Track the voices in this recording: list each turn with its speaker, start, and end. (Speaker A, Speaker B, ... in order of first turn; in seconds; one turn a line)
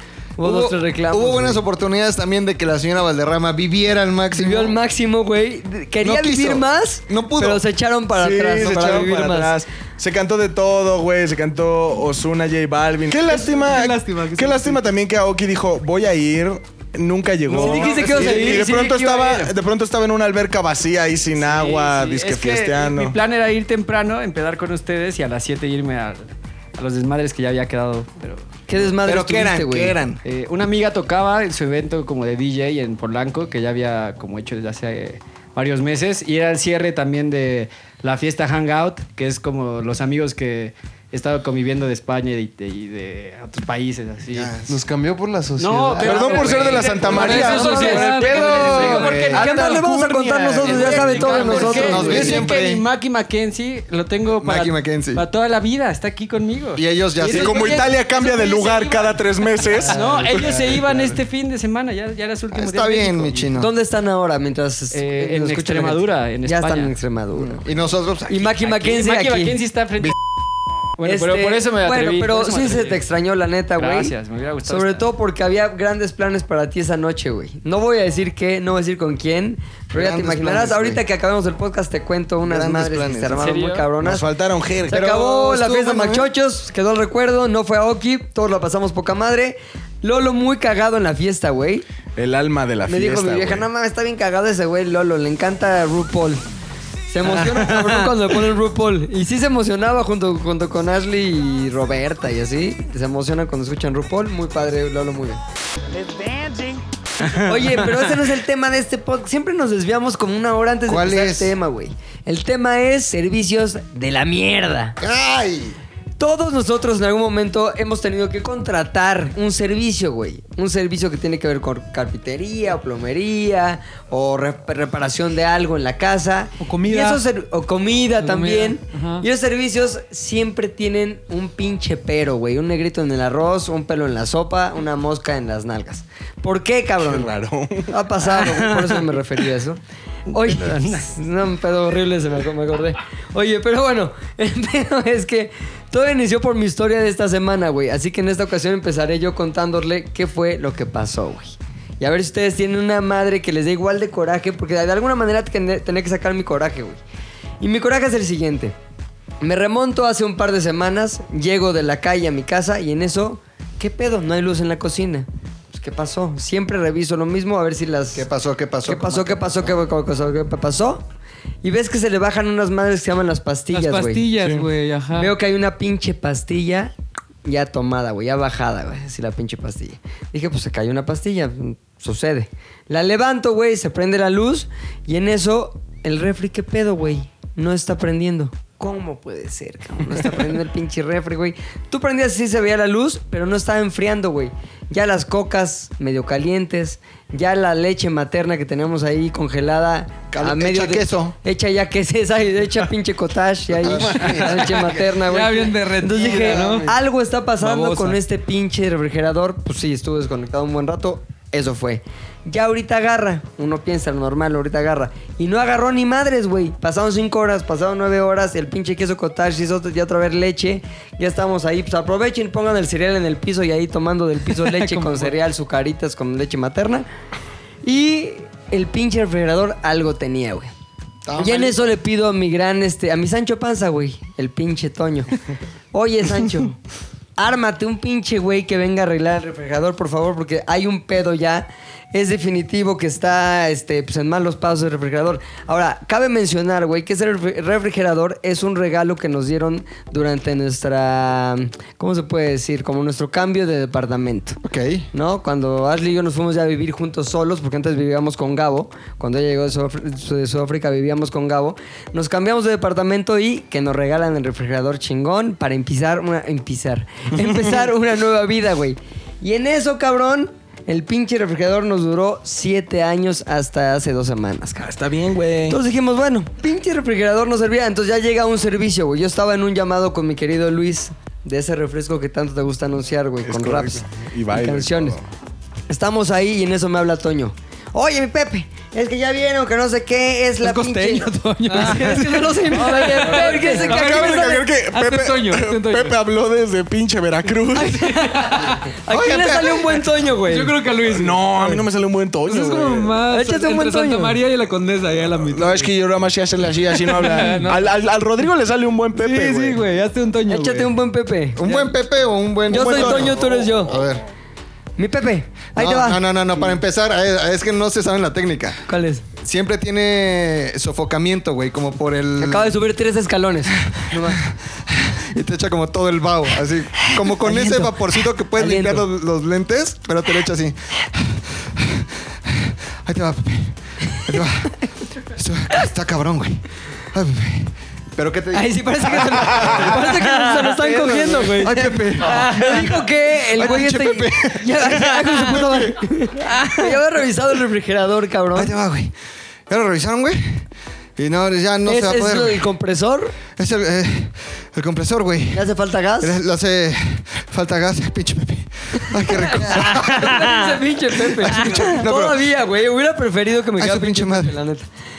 Speaker A: 0.4-1.6
Speaker B: 0.4-4.8
Speaker A: 4.3-9.5
Speaker B: 6.0-7.6
Speaker C: 8.1-23.2
Speaker D: 13.2-14.8
Speaker A: 17.5-18.7
Speaker E: 17.5-19.5
Speaker E: 21.4-29.0
Speaker A: 28.7-30.0
Speaker B: 29.0-30.2
Speaker E: 30.2-44.6
Speaker B: 44.3-44.8
Speaker F: 44.7-46.8
Speaker E: 45.5-49.9
Speaker C: 46.0-48.3
Speaker D: 47.0-49.2
Speaker A: 47.2-52.4
Speaker F: 48.0-52.3
Speaker E: 50.6-63.6
Speaker B: 50.6-52.8
Speaker B: 54.4-55.2
Speaker B: 56.8-57.8
Speaker C: 57.3-60.9
Speaker F: 60.1-60.9
Speaker B: 62.5-63.7
Speaker A: 63.6-67.6
Speaker E: 64.9-67.0
Speaker B: 67.3-68.5
Speaker A: 68.3-69.6
Speaker E: 68.5-70.2
Speaker E: 71.0-73.0
Speaker A: 71.0-74.2
Speaker E: 73.8-75.1
Speaker A: 74.7-84.3
Speaker B: 79.9-81.0
Speaker B: 82.4-83.6
Speaker E: 83.4-83.9
Speaker C: 84.0-85.0
Speaker A: 84.9-91.8
Speaker B: 84.9-86.3
Speaker C: 92.2-93.7
Speaker A: 92.9-96.4
Speaker A: 97.1-105.4
Speaker E: 97.2-98.3
Speaker A: 106.0-106.5
Speaker E: 107.2-108.0
Speaker A: 107.3-115.0
Speaker B: 110.9-111.5
Speaker B: 115.0-115.8
Speaker A: 116.2-137.3
Speaker D: 126.6-127.2
Speaker D: 128.2-129.2
Speaker C: 137.0-137.9
Speaker A: 137.9-139.8
Speaker E: 138.4-138.9
Speaker E: 140.3-141.1
Speaker A: 140.3-157.0
Speaker A: 157.6-158.8
Speaker A: 159.4-168.3
Speaker B: 168.2-169.8
Speaker A: 168.9-171.0
Speaker A: 171.6-174.2
Speaker D: 173.7-175.3
Speaker C: 174.4-174.7
Speaker A: 175.2-176.9
Speaker A: 177.4-227.1
Speaker B: 200.3-201.4
Speaker B: 203.8-204.8
Speaker C: 203.8-204.5
Speaker D: 204.2-206.9
Speaker B: 206.4-206.8
Speaker D: 207.6-208.2
Speaker D: 224.6-225.3
Speaker A: 227.8-230.7
Speaker B: 231.2-231.8
Speaker A: 231.4-235.3
Speaker A: 235.9-236.8
Speaker A: 237.4-254.6
Speaker B: 254.6-255.1
Speaker A: 255.1-275.0
Speaker C: 274.8-275.8
Speaker A: 275.7-285.2
Speaker C: 283.4-285.2
Speaker A: 285.9-294.6
Speaker D: 290.6-296.2
Speaker C: 293.3-298.0
Speaker A: 297.7-300.7
Speaker D: 298.0-298.9
Speaker B: 299.1-300.0
Speaker D: 300.5-301.8
Speaker C: 301.1-303.2
Speaker D: 302.5-305.9
Speaker A: 303.3-304.4
Speaker C: 305.5-309.8
Speaker D: 306.9-307.9
Speaker D: 309.1-310.9
Speaker A: 310.5-311.6
Speaker B: 311.6-314.2
Speaker D: 311.6-312.0
Speaker A: 312.7-313.9
Speaker D: 312.7-313.5
Speaker A: 315.0-316.2
Speaker B: 315.8-318.8
Speaker A: 318.9-319.2
Speaker B: 319.4-322.8
Speaker A: 322.4-324.5
Speaker B: 323.8-340.2
Speaker A: 327.2-328.0
Speaker A: 328.5-329.1
Speaker A: 338.5-348.7
Speaker E: 340.5-340.8
Speaker B: 340.8-346.1
Speaker E: 346.5-346.9
Speaker B: 348.5-349.1
Speaker B: 349.7-352.7
Speaker A: 351.9-353.4
Speaker B: 353.5-355.7
Speaker A: 355.5-356.4
Speaker B: 356.2-362.5
Speaker A: 359.0-364.9
Speaker B: 363.8-364.6